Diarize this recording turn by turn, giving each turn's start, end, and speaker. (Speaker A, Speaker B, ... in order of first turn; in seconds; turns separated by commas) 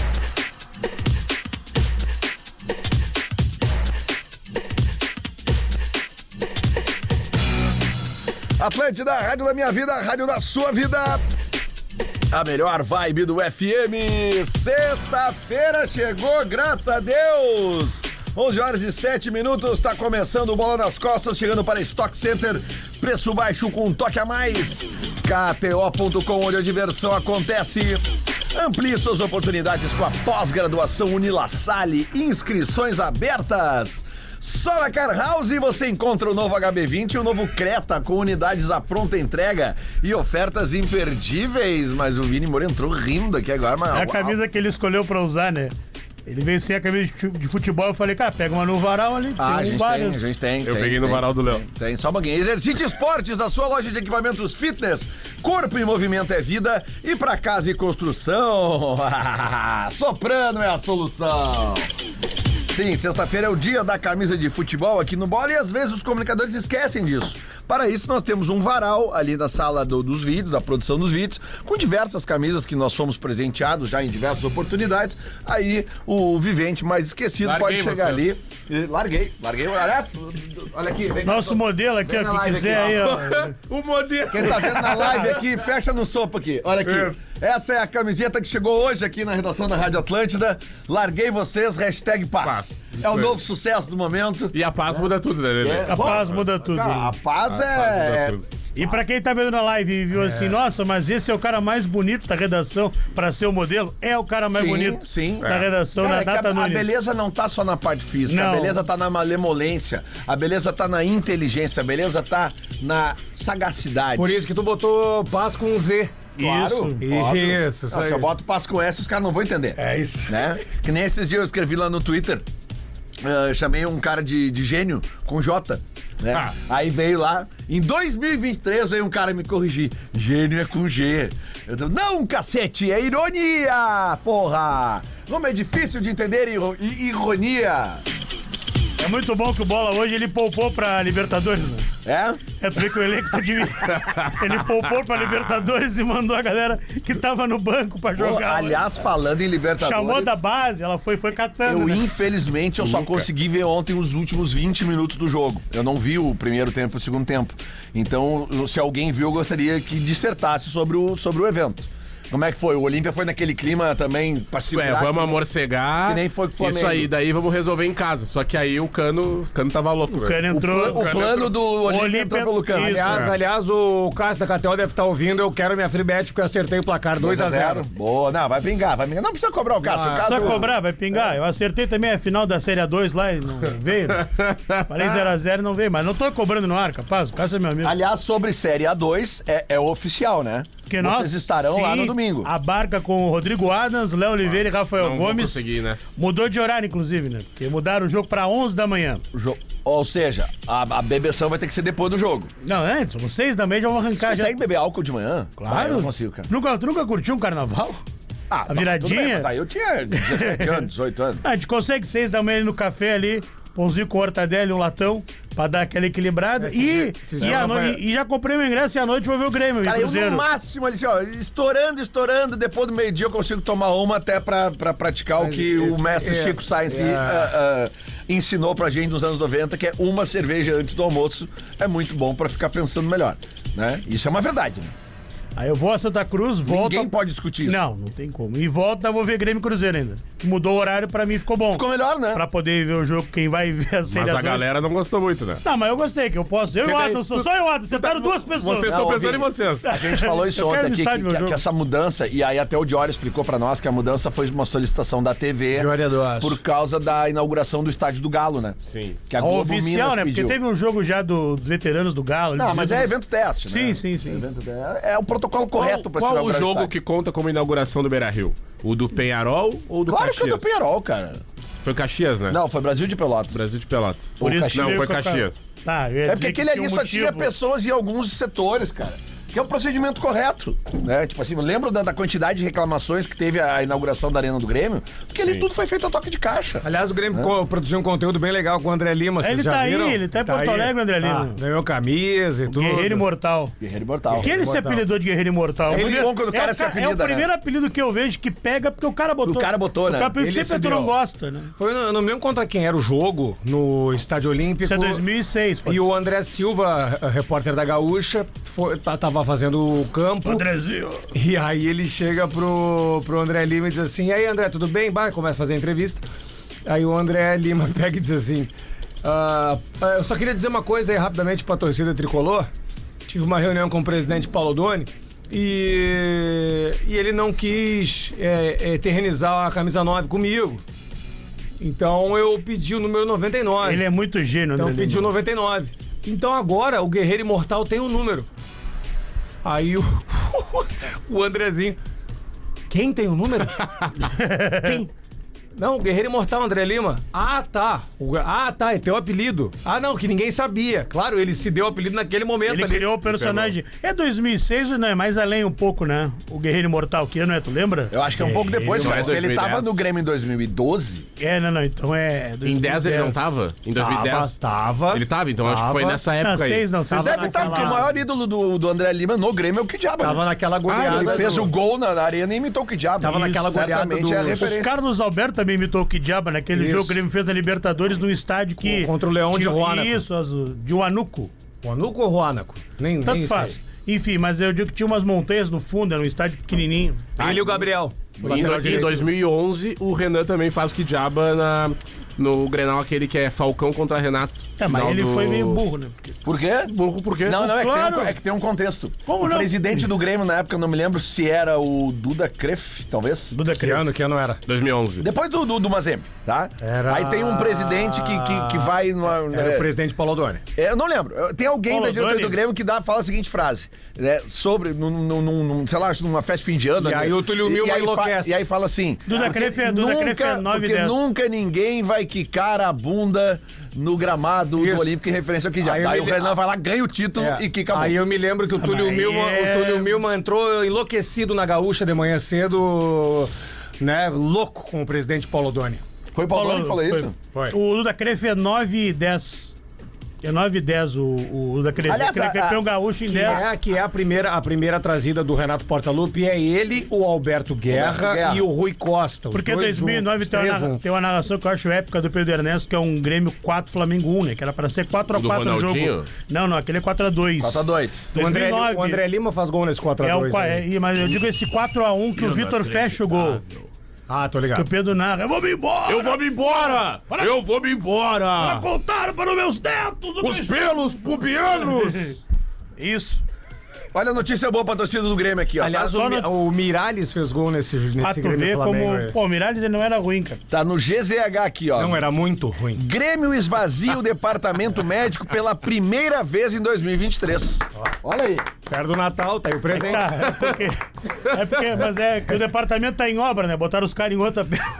Speaker A: 8.6-11.2, Speaker A: 12.3-44.4, Speaker B: 43.9-45.7, Speaker B: 46.3-50.2, Speaker A: 49.4-61.9, Speaker C: 50.6-51.6, Speaker A: 62.7-83.2, Speaker C: 77.4-78.3, Speaker B: 81.2-83.5, Speaker C: 82.8-85.4, Speaker A: 84.3-98.3, Speaker C: 86.8-87.2, Speaker C: 92.4-93.3, Speaker C: 94.5-96.2, Speaker B: 95.9-97.1, Speaker C: 97.5-98.4, Speaker B: 98.8-106.9, Speaker D: 100.2-100.5, Speaker A: 104.5-114.4, Speaker C: 105.4-105.7, Speaker B: 108.3-108.8, Speaker D: 114.1-116.1, Speaker B: 116.4-117.0, Speaker A: 116.4-122.4, Speaker D: 117.0-118.3, Speaker D: 119.8-120.5, Speaker A: 123.2-138.0, Speaker B: 139.0-141.9, Speaker A: 142.0-142.4, Speaker B: 142.6-148.8, Speaker A: 148.2-150.4, Speaker B: 149.8-152.0, Speaker A: 151.6-165.4, Speaker C: 152.8-153.2, Speaker C: 164.7-171.2, Speaker A: 166.0-167.1, Speaker B: 170.2-173.2, Speaker A: 170.5-173.3, Speaker D: 172.8-177.8, Speaker A: 177.2-181.3, Speaker D: 179.8-180.6, Speaker B: 180.2-184.3, Speaker C: 184.4-185.2, Speaker B: 184.9-187.9, Speaker A: 187.8-192.5, Speaker B: 190.9-195.6, Speaker C: 194.5-196.1, Speaker B: 196.2-199.2, Speaker A: 199.3-202.5, Speaker B: 202.6-204.5, Speaker A: 204.2-206.5, Speaker B: 205.6-208.0, Speaker A: 208.5-211.4, Speaker B: 208.7-209.5, Speaker B: 210.2-210.8, Speaker B: 211.4-220.4, Speaker D: 216.6-218.0, Speaker A: 219.8-234.9, Speaker D: 225.3-227.5, Speaker B: 235.6-237.1, Speaker A: 236.7-237.8, Speaker B: 237.6-244.7, Speaker A: 241.7-242.4, Speaker C: 244.1-245.6, Speaker B: 245.6-249.1, Speaker C: 246.8-249.9, Speaker A: 248.8-258.8, Speaker B: 249.8-251.6, Speaker D: 255.7-256.6, Speaker C: 258.9-259.2, Speaker A: 259.3-260.6, Speaker B: 259.4-264.4, Speaker A: 262.5-266.9, Speaker C: 265.7-270.7, Speaker A: 270.0-271.4, Speaker C: 271.8-272.6, Speaker A: 272.5-273.6, Speaker C: 273.5-275.6, Speaker A: 274.4-275.1, Speaker B: 274.4-277.5, Speaker A: 276.2-287.5, Speaker D: 286.8-293.2, Speaker B: 289.4-291.6, Speaker B: 292.7-293.7, Speaker A: 293.8-294.5, Speaker D: 294.3-295.1, Speaker B: 294.4-301.7, Speaker A: 295.9-297.5, Speaker D: 295.9-296.2, Speaker A: 299.4-300.4, Speaker D: 300.4-301.1, Speaker D: 301.8-305.2, Speaker B: 304.8-306.1, Speaker D: 305.9-310.7, Speaker B: 310.4-311.3, Speaker D: 311.3-316.2, Speaker D: 316.9-318.7, Speaker D: 319.2-322.7, Speaker D: 323.3-330.8, Speaker D: 331.8-334.0, Speaker B: 333.8-335.3, Speaker D: 334.8-338.5, Speaker D: 339.6-342.0, Speaker D: 342.9-344.3, Speaker B: 344.4-345.0, Speaker D: 345.8-353.1, Speaker B: 352.7-358.1, Speaker C: 353.2-353.8, Speaker A: 358.1-361.3, Speaker D: 358.4-359.3, Speaker C: 358.9-360.1, Speaker B: 361.4-363.4, Speaker C: 362.6-364.6, Speaker D: 364.0-366.2, Speaker C: 365.1-366.9, Speaker B: 366.4-368.0, Speaker D: 367.1-368.1, Speaker A: 367.1-374.9, Speaker D: 370.2-371.8, Speaker B: 371.1-371.4, Speaker D: 373.2-374.7, Speaker B: 373.3-373.6, Speaker B: 374.4-381.5, Speaker D: 376.7-377.2, Speaker D: 378.8-380.2, Speaker D: 381.8-383.8, Speaker B: 383.2-387.2, Speaker D: 387.4-389.3, Speaker C: 387.4-387.8, Speaker A: 388.4-388.9, Speaker C: 388.4-395.8, Speaker B: 394.8-396.1, Speaker A: 396.4-403.6, Speaker C: 396.9-397.6, Speaker B: 397.5-398.3, Speaker B: 399.3-400.1, Speaker B: 403.5-404.1, Speaker D: 403.8-404.6, Speaker C: 404.7-405.2, Speaker A: 405.2-409.9, Speaker D: 406.8-410.6, Speaker A: 410.8-428.2, Speaker B: 411.9-412.6, Speaker D: 417.0-418.6, Speaker B: 419.3-421.2, Speaker D: 419.3-419.6, Speaker D: 424.8-425.1, Speaker D: 425.8-426.5, Speaker D: 427.4-436.0, Speaker B: 428.8-430.2, Speaker A: 436.3-437.3, Speaker B: 436.5-439.7, Speaker B: 440.4-443.7, Speaker A: 442.0-443.7, Speaker D: 443.3-451.1, Speaker A: 447.9-448.6, Speaker B: 449.5-459.2, Speaker C: 455.3-456.3, Speaker A: 457.6-458.3, Speaker D: 458.3-460.8, Speaker B: 460.2-463.6, Speaker C: 462.4-463.9, Speaker D: 464.3-464.9, Speaker B: 464.7-467.5, Speaker C: 466.1-468.9, Speaker B: 468.6-470.9, Speaker C: 470.4-472.3, Speaker B: 471.8-472.4, Speaker B: 473.0-473.4, Speaker A: 474.1-476.3, Speaker D: 475.8-479.3, Speaker B: 476.0-476.5, Speaker B: 478.2-480.6, Speaker A: 480.7-482.2, Speaker D: 482.0-483.0, Speaker A: 482.9-488.7, Speaker D: 488.9-490.4, Speaker B: 489.9-494.9